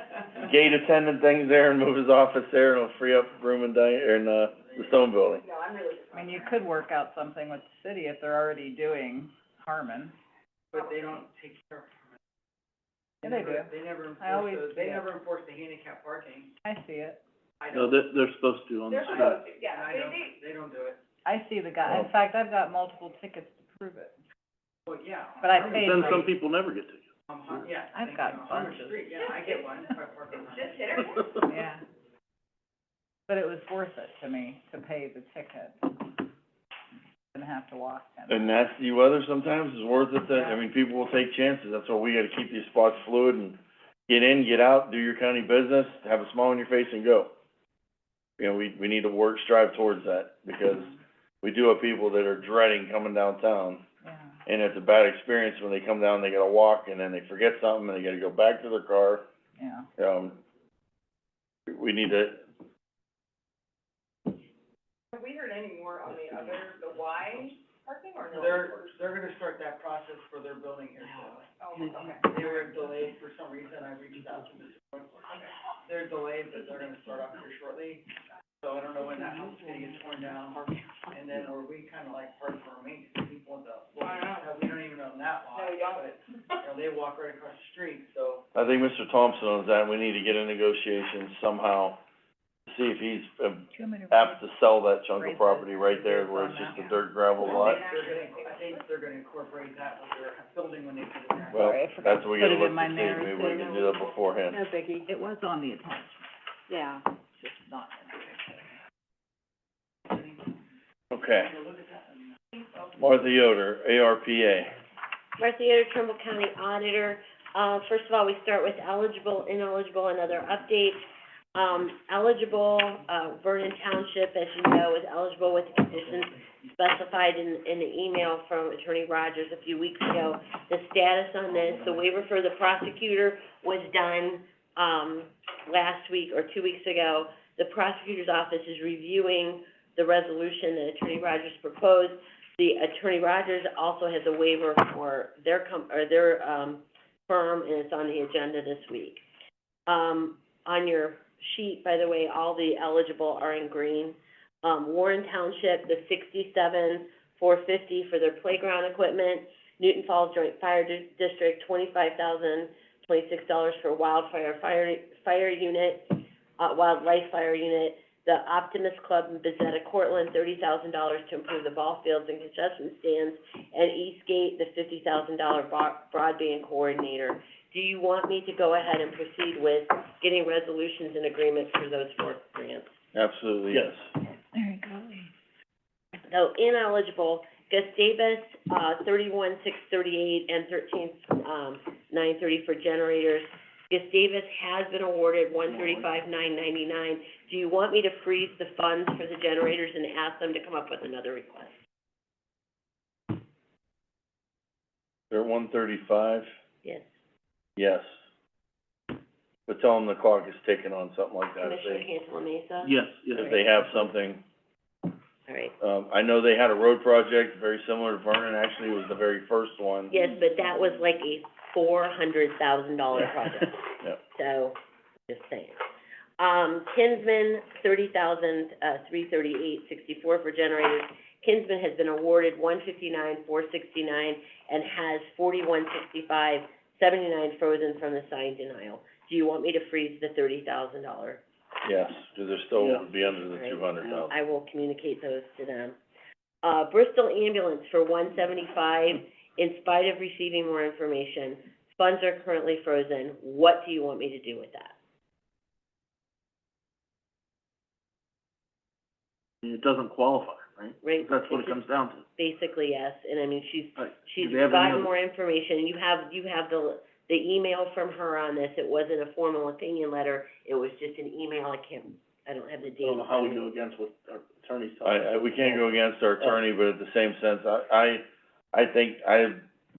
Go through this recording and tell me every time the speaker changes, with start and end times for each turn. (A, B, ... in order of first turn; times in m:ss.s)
0:00.4-0:05.4 A
0:04.7-0:05.0 B
0:05.4-0:06.6 C
0:06.1-0:10.1 D
0:10.7-0:12.2 B
0:13.2-0:16.5 B
0:13.2-0:15.1 D
0:16.6-0:17.2 D
0:17.6-0:18.0 B
0:17.7-0:19.5 E
0:18.9-0:20.4 C
0:19.1-0:21.0 B
0:21.2-0:24.2 D
0:24.8-0:26.3 B
0:25.4-0:26.3 D
0:25.6-0:27.0 E
0:27.3-0:31.3 B
0:27.9-0:29.2 D
0:29.1-0:29.6 C
0:30.5-0:31.5 C
0:31.4-0:31.8 D
0:33.3-0:36.1 D
0:37.3-0:38.5 D
0:38.3-0:47.3 A
0:40.3-0:40.6 B
0:48.4-0:53.8 A
0:54.0-0:54.4 D
0:54.5-0:59.2 A
0:59.6-0:59.9 D
1:00.0-1:00.4 A
1:01.7-1:02.4 A
1:05.1-1:08.9 C
1:08.3-1:11.5 B
1:11.2-1:12.7 C
1:12.2-1:15.3 B
1:15.9-1:18.1 B
1:18.6-1:28.4 B
1:24.0-1:24.5 C
1:25.6-1:26.1 C
1:28.6-1:32.0 A
1:32.7-1:37.8 A
1:33.7-1:34.4 D
1:35.2-1:37.0 D
1:37.4-1:38.8 C
1:37.5-1:41.8 B
1:41.5-1:43.7 D
1:41.5-1:44.6 A
1:43.4-1:44.6 C
1:45.0-1:48.7 D
1:50.1-1:50.6 B
1:51.1-1:51.6 A
1:51.3-1:52.6 B
1:53.0-1:54.8 A
1:55.4-2:01.0 F
2:01.6-2:29.2 F
2:29.9-3:02.9 F
3:03.1-3:03.9 A
3:04.5-3:05.3 D
3:06.3-3:21.7 F
3:15.7-3:16.1 E
3:25.3-3:26.5 A
3:26.8-3:27.1 F
3:27.8-3:28.1 A
3:29.7-3:32.1 A
3:31.6-3:33.9 F
3:32.8-3:34.0 E
3:33.3-3:34.4 A
3:35.5-3:35.7 F
3:35.8-3:40.2 A
3:40.1-3:43.8 F
3:44.3-3:44.8 F
3:45.3-3:45.8 F
3:46.4-4:01.4 F
4:01.8-4:04.3 A
4:02.8-4:03.1 E
4:03.2-4:06.0 F
4:06.6-4:14.9 F
4:19.6-4:22.2 E
4:21.0-4:21.8 F
4:22.4-4:33.6 F
4:24.0-4:25.1 E
4:33.0-4:35.8 E
4:35.0-4:39.6 A